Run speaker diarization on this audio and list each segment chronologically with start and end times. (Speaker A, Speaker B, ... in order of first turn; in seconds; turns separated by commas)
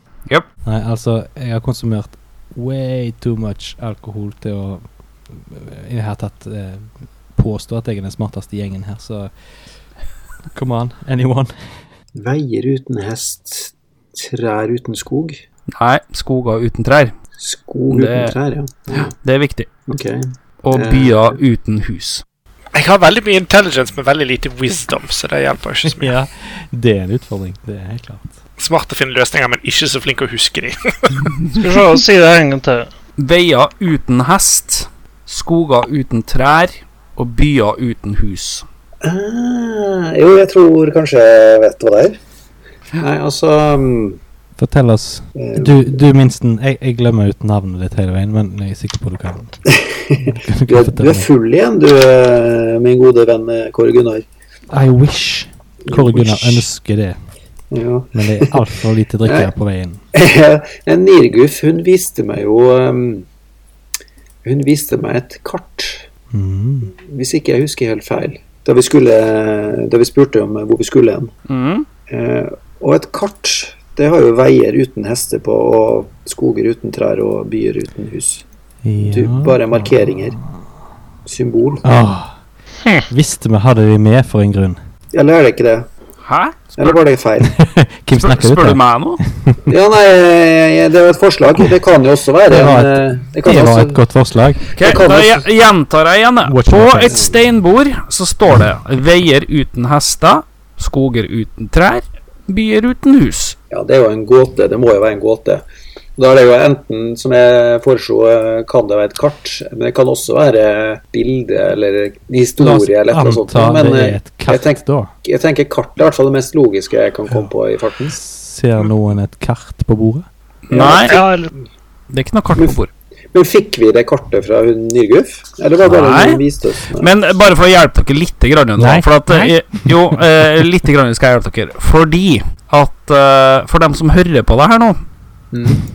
Speaker A: 0.7-9.3, Speaker A: 10.5-11.5, Speaker B: 12.2-15.4, Speaker C: 15.7-17.1, Speaker B: 17.4-19.1, Speaker C: 17.9-18.4, Speaker C: 18.9-19.7, Speaker B: 19.9-21.4, Speaker C: 20.6-22.2, Speaker D: 22.7-26.1, Speaker A: 25.9-28.4, Speaker D: 28.6-31.1, Speaker E: 31.6-32.9, Speaker C: 33.2-38.6, Speaker B: 39.0-42.2, Speaker B: 43.0-44.2, Speaker A: 44.6-49.6, Speaker B: 45.4-46.0, Speaker B: 49.7-54.3, Speaker A: 50.2-51.3, Speaker A: 54.7-57.2, Speaker B: 55.9-56.7, Speaker B: 57.7-58.6, Speaker A: 58.1-60.0, Speaker B: 59.2-59.5, Speaker B: 60.1-63.3, Speaker B: 64.4-66.1, Speaker A: 66.3-66.9, Speaker B: 66.9-71.3, Speaker C: 71.5-71.9, Speaker B: 72.1-78.5, Speaker A: 78.8-80.6, Speaker B: 79.0-80.4, Speaker B: 81.2-81.8, Speaker A: 81.8-82.4, Speaker A: 83.1-84.8, Speaker B: 85.1-85.9, Speaker C: 86.2-87.0, Speaker B: 86.8-87.5, Speaker A: 87.5-89.6, Speaker C: 88.2-89.2, Speaker B: 89.7-94.0, Speaker A: 92.5-94.7, Speaker C: 94.7-103.6, Speaker B: 94.8-95.5, Speaker A: 96.5-97.3, Speaker B: 103.7-105.7, Speaker B: 106.2-118.2, Speaker A: 112.6-115.1, Speaker A: 118.1-120.3, Speaker C: 120.7-121.2, Speaker B: 120.7-121.1, Speaker E: 120.8-121.5, Speaker C: 122.1-122.9, Speaker B: 123.3-127.1, Speaker C: 125.9-126.4, Speaker C: 127.0-135.0, Speaker A: 128.8-130.2, Speaker B: 135.5-135.8